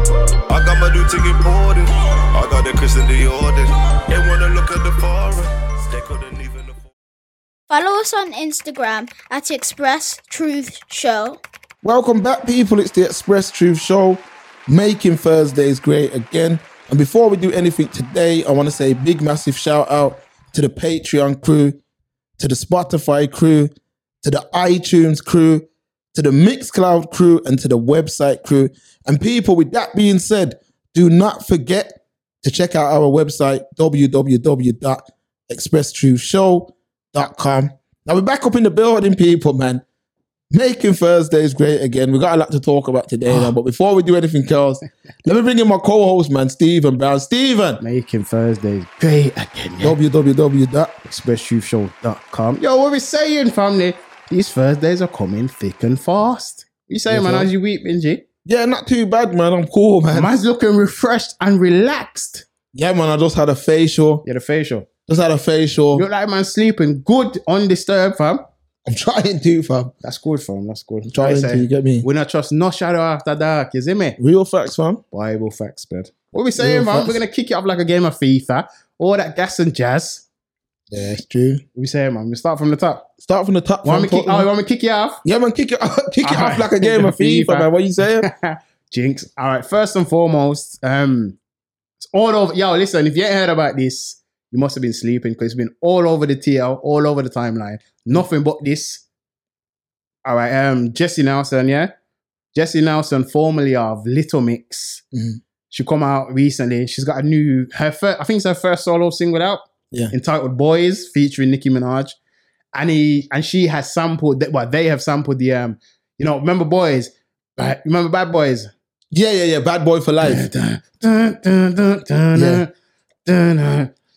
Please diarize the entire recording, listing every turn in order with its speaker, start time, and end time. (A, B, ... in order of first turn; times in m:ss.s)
0:00.5-0:06.9 A
0:07.7-0:11.4 B
0:11.8-0:21.8 C
0:22.4-0:23.7 C
0:24.2-0:39.8 C
0:40.5-0:47.8 C
0:47.8-0:50.0 D
0:49.8-0:51.0 C
0:51.0-0:58.2 D
0:57.1-0:57.5 C
0:58.4-1:00.3 C
1:00.1-1:02.5 D
1:02.7-1:04.2 C
1:04.2-1:04.9 D
1:05.1-1:06.1 C
1:05.9-1:08.4 D
1:08.8-1:09.9 C
1:10.0-1:14.2 D
1:11.1-1:12.1 C
1:14.2-1:15.0 C
1:15.1-1:20.2 D
1:16.6-1:17.2 C
1:20.9-1:21.6 C
1:21.8-1:23.1 D
1:23.2-1:24.5 C
1:23.8-1:25.2 D
1:25.2-1:28.3 C
1:26.2-1:27.7 D
1:28.2-1:31.4 D
1:32.1-1:39.0 D
1:40.2-1:41.9 D
1:42.5-1:45.0 D
1:45.1-1:45.4 C
1:45.7-1:52.2 D
1:52.7-1:58.7 D
1:59.1-2:00.4 C
2:00.2-2:02.7 D
2:02.4-2:02.6 C
2:03.3-2:03.9 D